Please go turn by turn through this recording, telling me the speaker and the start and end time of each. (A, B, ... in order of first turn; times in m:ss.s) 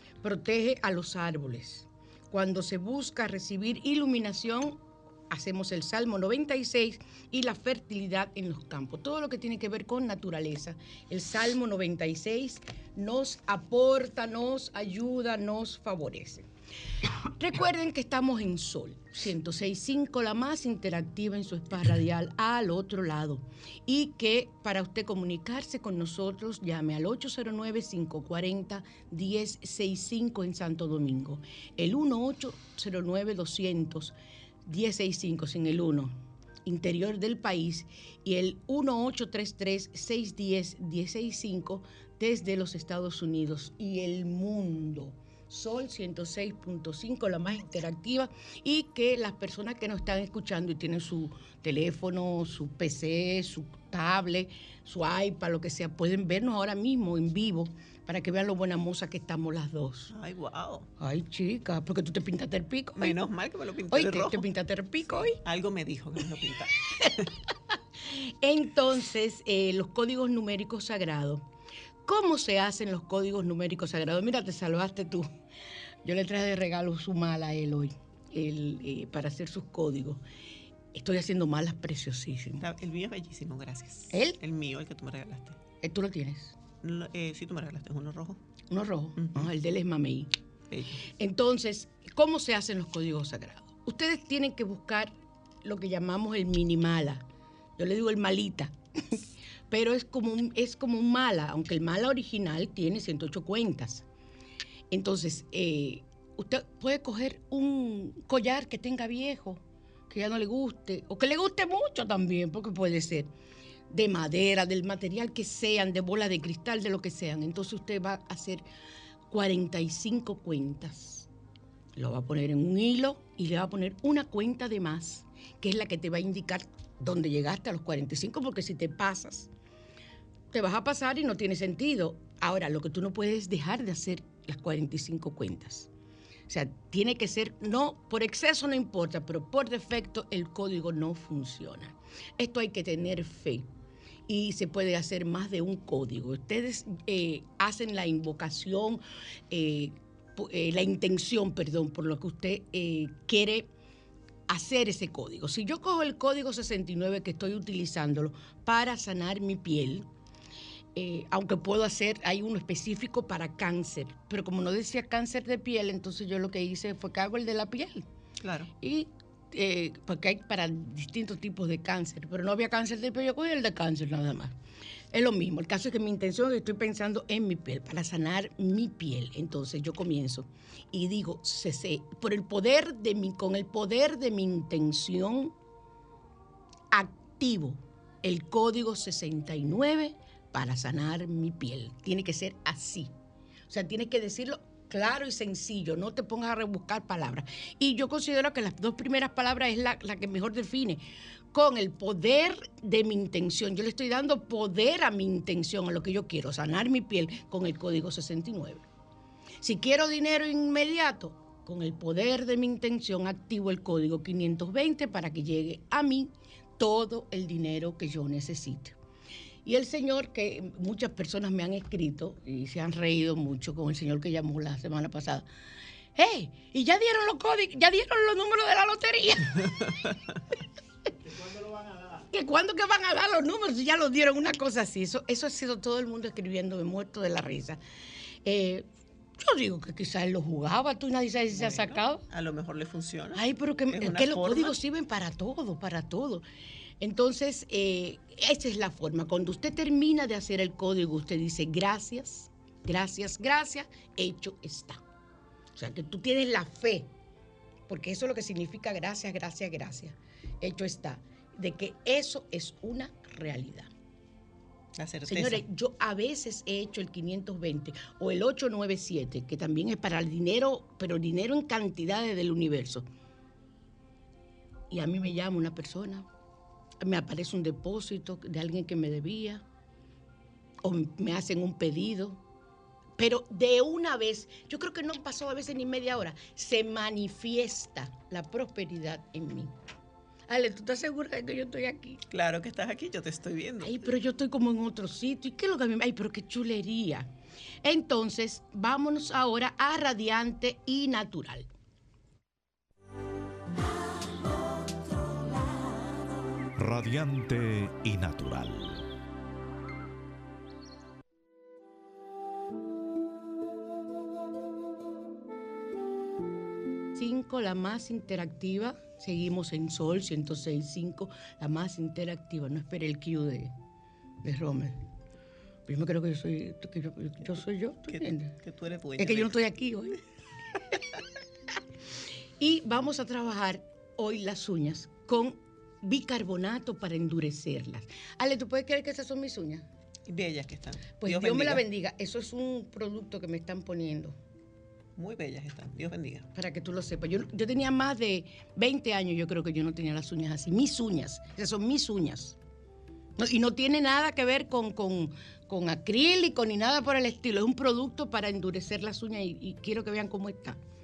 0:00.2-0:16.5 A
0:17.3-1:00.1 A
1:00.1-1:00.9 B
1:01.0-1:03.2 A
1:03.0-1:04.5 B
1:03.9-1:05.4 A
1:05.1-1:07.3 B
1:08.1-1:11.4 A
1:12.0-1:15.3 A
1:16.0-1:20.2 A
1:20.9-1:22.7 A
1:22.6-1:25.6 B
1:24.1-1:24.4 A
1:25.8-1:26.6 A
1:26.8-1:28.4 B
1:28.7-1:30.3 A
1:29.2-1:29.5 B
1:30.7-1:31.0 B
1:31.2-1:35.1 A
1:35.6-1:37.2 A
1:37.8-1:44.0 A
1:44.9-1:53.3 A
1:53.9-1:58.6 A
1:59.3-2:01.3 A
2:02.0-2:09.5 A
2:10.5-2:15.9 A
2:16.5-2:23.7 A
2:24.3-2:33.7 A
2:34.5-2:40.1 A
2:41.0-2:48.1 A
2:48.4-2:48.7 B
2:48.8-2:54.6 A
2:55.1-3:05.5 A
3:06.9-3:13.1 A
3:13.7-3:28.8 A
3:29.6-3:39.0 A
3:39.6-3:45.5 A
3:46.2-3:50.1 A
3:52.3-3:57.8 A
3:58.4-3:58.9 A
3:59.4-4:02.2 A
4:01.5-4:04.8 B
4:03.3-4:06.4 A
4:07.0-4:15.0 A
4:15.8-4:17.1 A
4:17.9-4:23.9 A
4:25.0-4:25.6 B
4:25.3-4:33.0 A
4:34.9-4:36.3 A
4:37.0-4:39.6 A
4:40.8-4:42.4 A
4:43.2-4:49.7 A
4:50.5-4:52.2 A
4:52.3-4:54.1 B
4:53.8-4:57.3 A
4:57.8-5:01.7 A
5:06.8-5:09.1 C
5:17.2-5:23.7 A
5:24.4-5:25.0 A
5:25.9-5:28.6 A
5:28.1-5:29.6 B
5:29.2-5:30.2 A
5:32.6-5:39.9 A
5:40.3-5:41.8 B
5:41.2-5:44.4 A
5:45.2-5:46.5 B
5:46.6-5:52.6 A
5:53.4-6:00.8 A